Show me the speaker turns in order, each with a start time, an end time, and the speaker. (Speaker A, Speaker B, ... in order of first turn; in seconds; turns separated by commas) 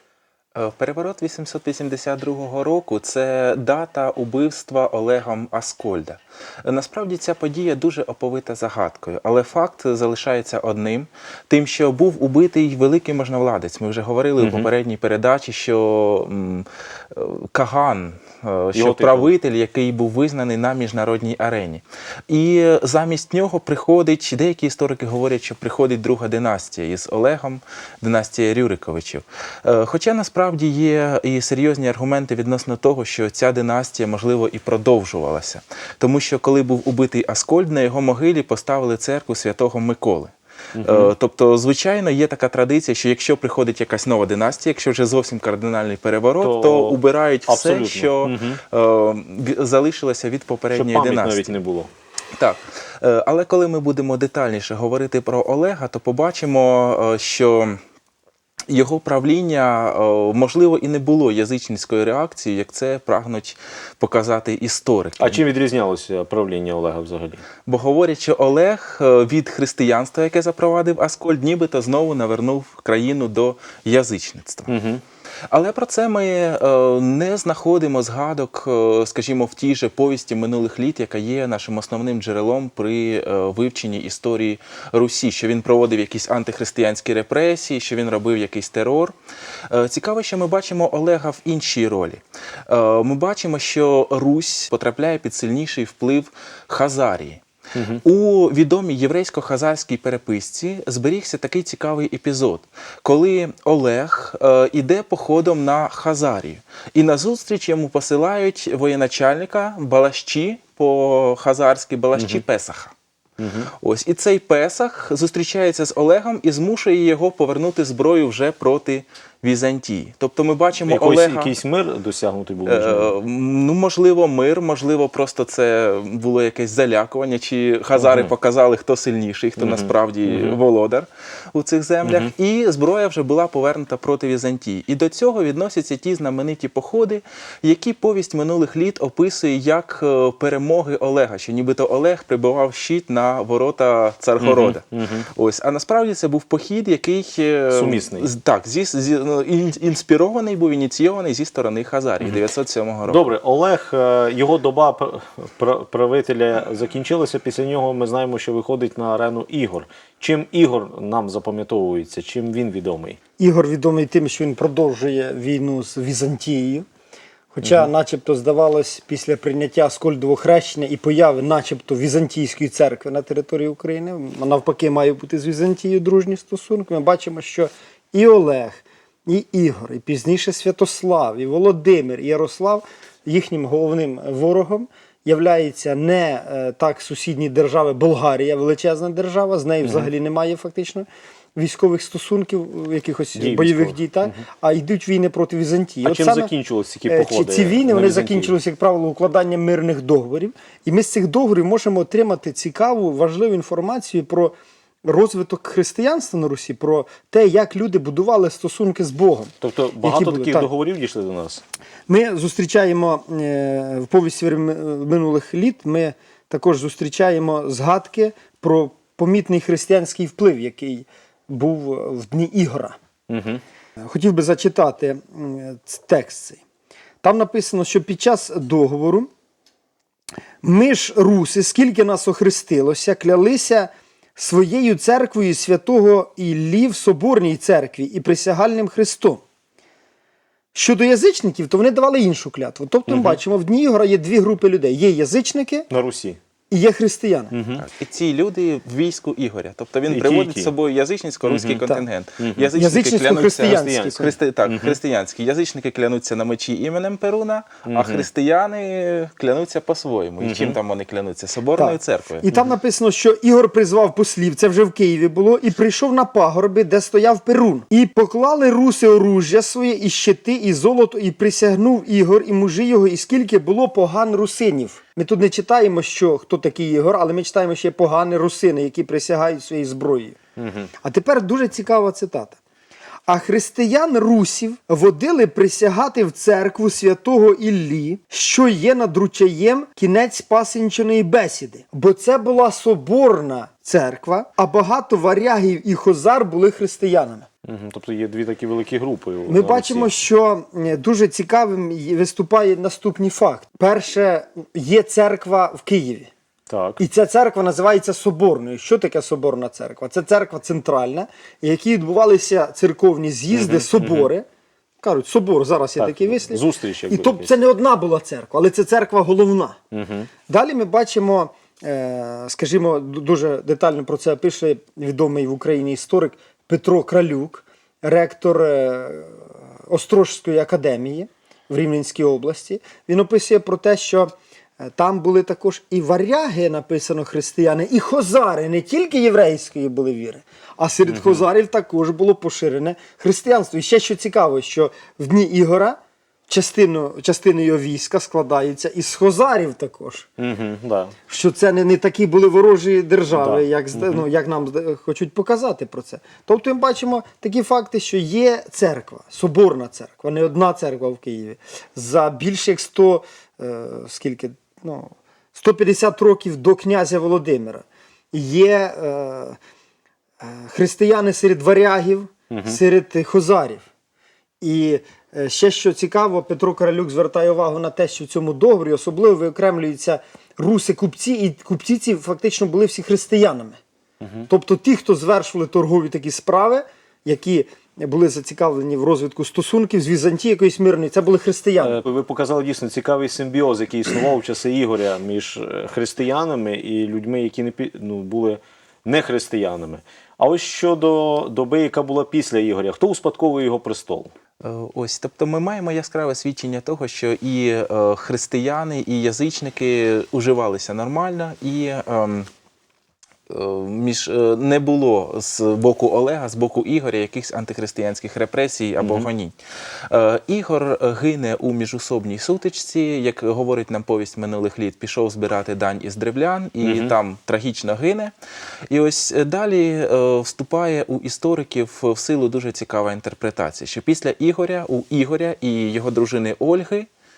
Speaker A: 0.5-51.5, Speaker B: 14.4-14.7, Speaker B: 18.7-19.3, Speaker B: 40.7-41.1, Speaker B: 46.4-48.6, Speaker B: 50.7-51.9, Speaker A: 52.3-57.8, Speaker A: 58.7-65.4, Speaker B: 65.2-67.4, Speaker A: 67.7-74.7, Speaker B: 74.7-75.0, Speaker A: 75.5-89.1, Speaker A: 89.7-97.4, Speaker B: 97.7-98.0, Speaker A: 98.0-112.9, Speaker B: 112.1-112.4, Speaker B: 113.4-113.7, Speaker A: 113.8-121.5, Speaker B: 120.8-123.1, Speaker A: 122.7-153.2, Speaker B: 128.0-128.3, Speaker B: 129.6-130.6, Speaker B: 132.0-132.3, Speaker B: 144.4-145.3, Speaker B: 147.7-148.3, Speaker B: 153.1-163.2, Speaker C: 163.4-166.8, Speaker C: 167.5-196.5, Speaker B: 167.6-167.9, Speaker B: 189.8-190.1, Speaker B: 193.3-194.4, Speaker B: 196.0-198.6, Speaker C: 197.1-210.7, Speaker B: 209.6-211.6, Speaker C: 212.1-223.0, Speaker B: 223.3-223.6, Speaker C: 224.0-226.6, Speaker C: 227.2-229.3, Speaker C: 230.6-239.4, Speaker C: 240.7-245.9, Speaker B: 243.1-243.4, Speaker B: 245.9-246.4, Speaker C: 246.7-247.5, Speaker B: 247.5-247.8, Speaker A: 247.8-262.4, Speaker B: 250.1-250.7, Speaker B: 251.4-252.7, Speaker C: 252.7-254.3, Speaker B: 253.6-255.0, Speaker B: 257.9-258.3, Speaker B: 260.4-260.8, Speaker C: 261.8-280.4, Speaker B: 280.6-280.9, Speaker C: 281.0-282.6, Speaker C: 283.3-297.5, Speaker B: 297.6-300.1, Speaker C: 299.5-306.3, Speaker B: 306.7-307.0, Speaker C: 307.0-314.4, Speaker B: 313.5-314.3, Speaker C: 315.0-319.8, Speaker B: 316.0-317.5, Speaker B: 319.9-320.3, Speaker C: 320.5-350.3, Speaker B: 341.1-341.4, Speaker B: 350.4-351.1, Speaker C: 351.3-369.6, Speaker B: 353.3-354.2, Speaker C: 370.4-373.9, Speaker B: 372.5-372.8, Speaker C: 374.6-383.8, Speaker B: 384.2-384.5, Speaker C: 384.5-392.0, Speaker B: 391.8-404.3, Speaker A: 404.6-412.5, Speaker A: 413.5-419.5, Speaker B: 419.0-419.3, Speaker A: 420.1-428.3, Speaker B: 426.8-427.1, Speaker A: 428.9-437.1